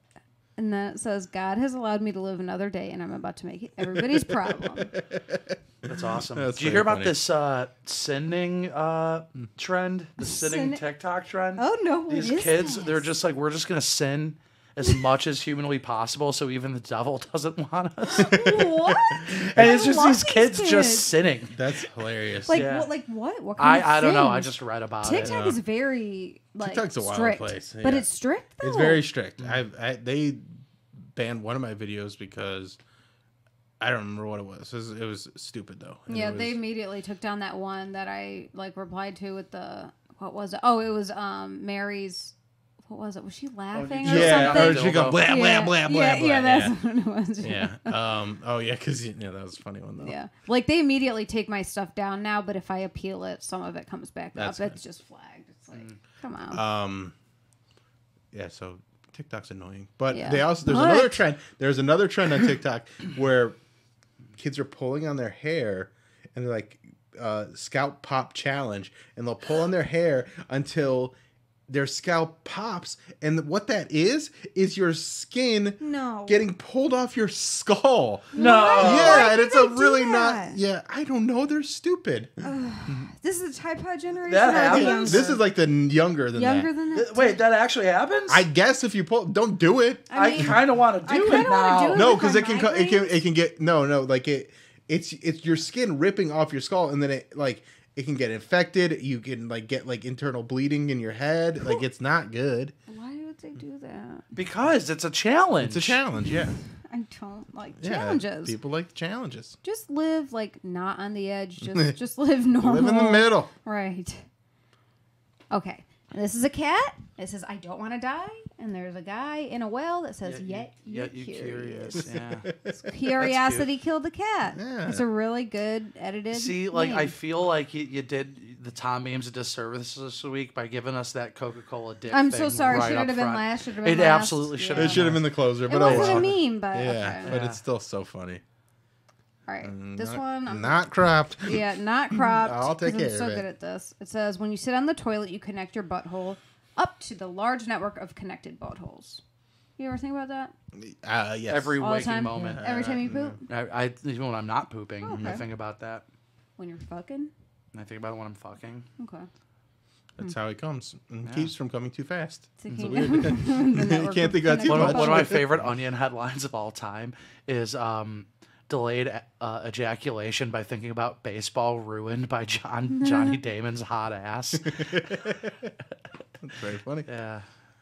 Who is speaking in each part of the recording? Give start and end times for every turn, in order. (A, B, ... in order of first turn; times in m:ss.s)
0:00.6-0:05.0 A
0:03.9-0:05.6 B
0:05.8-0:18.4 C
0:06.3-0:07.2 B
0:10.2-0:10.8 A
0:11.6-0:13.0 A
0:18.1-0:21.1 A
0:18.2-0:19.8 B
0:19.3-0:21.5 C
0:21.5-0:22.6 B
0:22.4-0:24.5 A
0:22.5-0:22.9 C
0:23.6-0:25.3 C
0:25.0-0:29.0 A
0:25.2-0:25.6 B
0:26.6-0:28.1 B
0:28.6-0:30.5 B
0:31.1-0:32.8 B
0:33.8-0:36.6 B
0:36.1-0:42.3 A
0:42.8-0:48.0 A
0:43.7-0:45.2 C
0:44.0-0:46.8 B
0:47.4-0:50.2 B
0:50.0-0:56.6 A
0:54.3-0:54.8 B
0:56.5-0:57.1 B
0:58.3-1:03.6 B
1:00.1-1:01.2 A
1:04.4-1:11.1 B
1:11.7-1:23.1 B
1:15.8-1:16.4 A
1:18.3-1:20.6 A
1:18.3-1:19.3 C
1:22.4-1:25.4 A
1:24.3-1:25.3 C
1:24.6-1:26.7 B
1:26.3-1:27.4 A
1:26.9-1:28.4 C
1:28.3-1:30.6 B
1:30.1-1:33.2 A
1:30.1-1:32.3 C
1:31.9-1:42.7 B
1:42.9-1:44.2 A
1:44.3-1:46.0 C
1:45.6-1:46.6 B
1:46.8-1:48.6 A
1:47.8-1:49.6 B
1:49.6-1:54.2 A
1:51.6-1:51.9 B
1:52.6-1:53.5 B
1:55.5-2:02.0 A
2:00.2-2:03.7 C
2:01.9-2:02.7 B
2:02.8-2:07.1 A
2:04.6-2:05.0 B
2:06.3-2:15.3 C
2:12.1-2:17.4 A
2:14.7-2:18.4 B
2:15.8-2:16.3 C
2:17.2-2:17.6 C
2:19.4-2:20.8 A
2:19.6-2:21.6 B
2:21.4-2:29.2 A
2:22.3-2:23.5 B
2:29.8-2:30.5 A
2:30.7-2:31.8 B
2:31.5-2:32.6 C
2:31.8-2:33.4 A
2:32.5-2:33.4 B
2:33.5-2:36.0 C
2:35.0-2:35.4 A
2:35.1-2:35.4 B
2:36.6-2:37.3 A
2:37.7-2:38.8 C
2:39.0-2:39.3 A
2:40.2-2:45.5 B
2:41.2-2:41.5 C
2:42.6-2:45.4 A
2:42.7-2:43.2 C
2:44.7-2:55.0 C
2:53.0-2:53.4 A
2:54.7-2:55.7 B
2:56.4-2:57.1 B
2:57.0-2:57.4 C